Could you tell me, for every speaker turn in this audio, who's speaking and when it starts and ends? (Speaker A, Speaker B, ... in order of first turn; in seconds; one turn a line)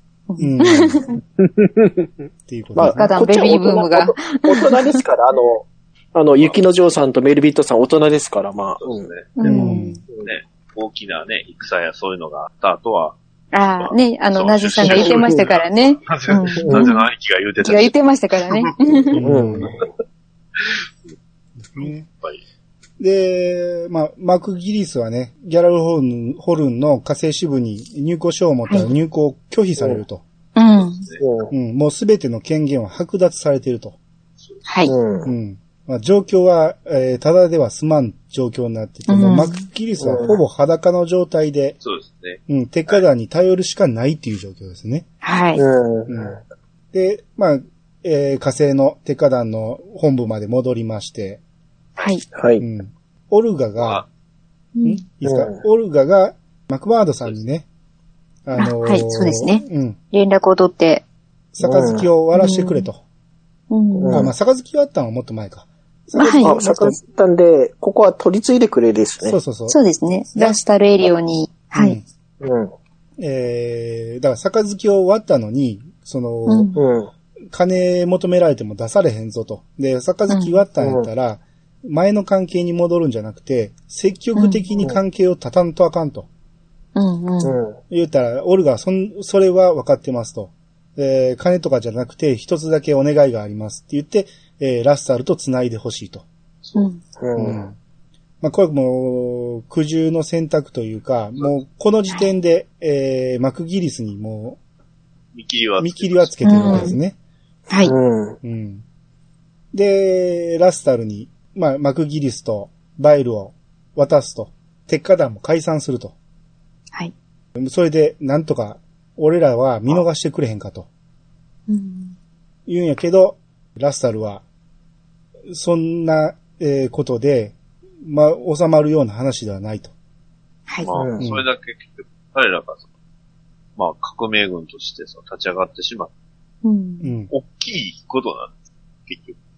Speaker A: 0.3-1.2
Speaker B: 0.4-1.0
Speaker C: 1.4-10.3
Speaker B: 2.5-3.1
Speaker A: 2.9-5.0
Speaker D: 8.8-9.3
Speaker A: 9.4-9.9
Speaker B: 9.4-10.0
Speaker D: 10.2-13.2
Speaker A: 13.5-17.0
Speaker D: 13.8-19.9
Speaker C: 14.8-15.3
Speaker C: 16.6-16.9
Speaker A: 17.6-19.2
Speaker B: 19.1-19.8
Speaker C: 19.2-19.8
Speaker D: 20.6-21.1
Speaker B: 21.7-22.1
Speaker D: 21.7-22.4
Speaker B: 23.0-30.2
Speaker A: 30.6-31.0
Speaker D: 30.7-31.2
Speaker C: 31.2-31.5
Speaker B: 31.5-34.0
Speaker A: 34.6-34.9
Speaker C: 34.9-35.3
Speaker B: 35.2-41.8
Speaker A: 39.1-39.6
Speaker C: 40.0-40.4
Speaker D: 41.8-43.0
Speaker B: 42.5-45.0
Speaker A: 45.2-45.6
Speaker C: 45.5-46.4
Speaker B: 46.1-46.4
Speaker B: 46.9-51.4
Speaker A: 52.0-52.2
Speaker C: 52.3-52.6
Speaker B: 52.6-54.0
Speaker D: 53.8-54.1
Speaker A: 54.7-55.0
Speaker B: 54.8-57.6
Speaker C: 55.2-55.6
Speaker B: 58.4-60.0
Speaker A: 58.5-61.0
Speaker B: 61.5-63.0
Speaker C: 61.6-62.1
Speaker A: 62.3-62.9
Speaker A: 63.7-64.3
Speaker C: 64.0-64.3
Speaker B: 64.1-67.0
Speaker A: 66.2-66.6
Speaker C: 66.4-69.4
Speaker B: 69.2-69.8
Speaker A: 69.7-72.0
Speaker B: 70.3-70.6
Speaker B: 71.7-72.0
Speaker C: 72.4-72.7
Speaker B: 73.2-76.8
Speaker A: 76.5-76.8
Speaker C: 76.7-77.1
Speaker B: 77.5-86.3
Speaker A: 80.3-80.6
Speaker C: 80.8-81.1
Speaker A: 84.3-84.7
Speaker A: 87.0-87.6
Speaker C: 87.4-87.8
Speaker B: 87.9-96.2
Speaker D: 96.6-96.9
Speaker C: 97.2-97.7
Speaker B: 97.3-97.8
Speaker B: 98.4-104.6
Speaker D: 105.3-106.7
Speaker B: 105.8-107.2
Speaker A: 106.4-107.0
Speaker C: 107.8-108.4
Speaker B: 108.4-108.8
Speaker B: 109.7-116.1
Speaker B: 117.5-120.9
Speaker A: 121.7-122.1
Speaker B: 122.7-124.4
Speaker B: 125.5-129.9
Speaker D: 130.8-132.8
Speaker C: 130.9-131.2
Speaker B: 131.2-131.4
Speaker D: 133.8-136.1
Speaker A: 136.6-137.1
Speaker B: 137.0-137.3
Speaker D: 137.3-138.6
Speaker D: 139.1-139.4